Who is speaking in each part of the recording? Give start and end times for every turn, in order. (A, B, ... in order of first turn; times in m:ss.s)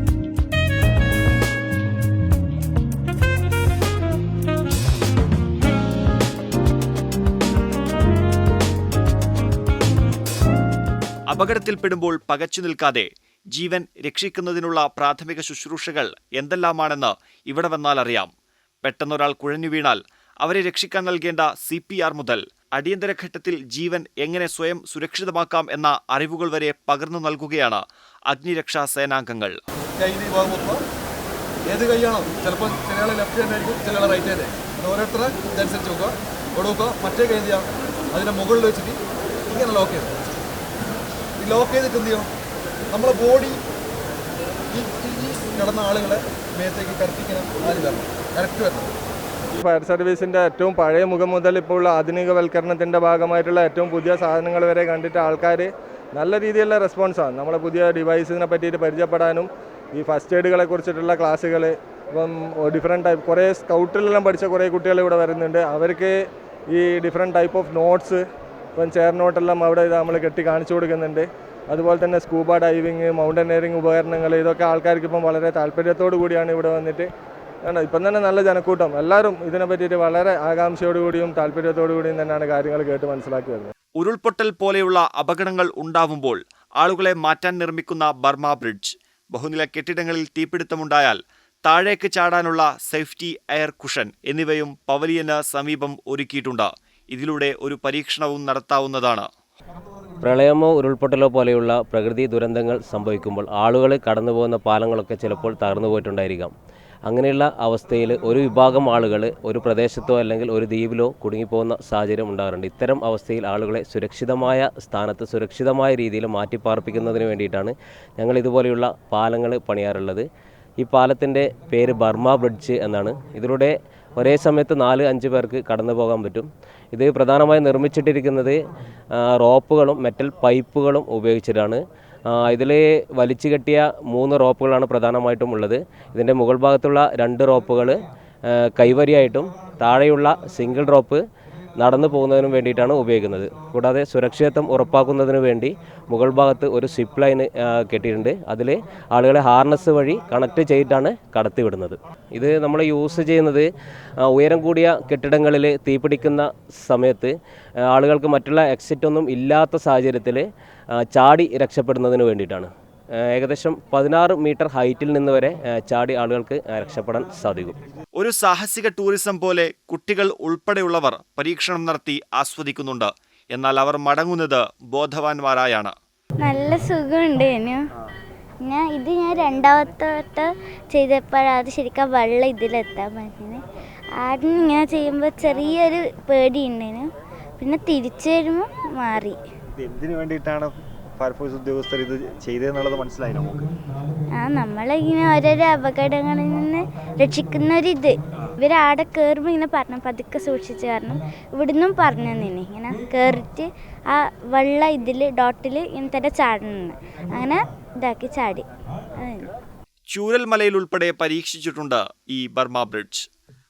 0:11.3-0:18.3 A
0:18.8-0:29.6 A
0:30.0-0:30.8 B
0:31.7-0:40.1 B
0:41.4-0:42.3 B
0:42.9-0:43.6 B
0:44.7-0:48.9 B
0:49.6-1:06.2 C
1:06.7-1:08.2 C
1:08.8-1:17.1 C
1:17.6-1:23.7 C
1:24.0-1:39.3 A
1:40.2-1:46.5 D
1:47.1-2:00.3 D
2:00.8-2:08.6 D
2:09.2-2:21.2 D
2:21.8-2:33.7 D
2:34.2-2:37.3 D
2:37.9-2:40.5 D
2:41.0-2:42.7 D
2:43.3-2:47.8 D
2:48.2-2:56.0 A
2:56.4-2:57.8 E
2:58.6-3:03.6 E
3:04.2-3:07.1 E
3:07.6-3:09.4 E
3:09.8-3:13.6 A
3:14.4-3:28.7 E
3:29.2-3:29.5 E
3:30.1-3:33.3 A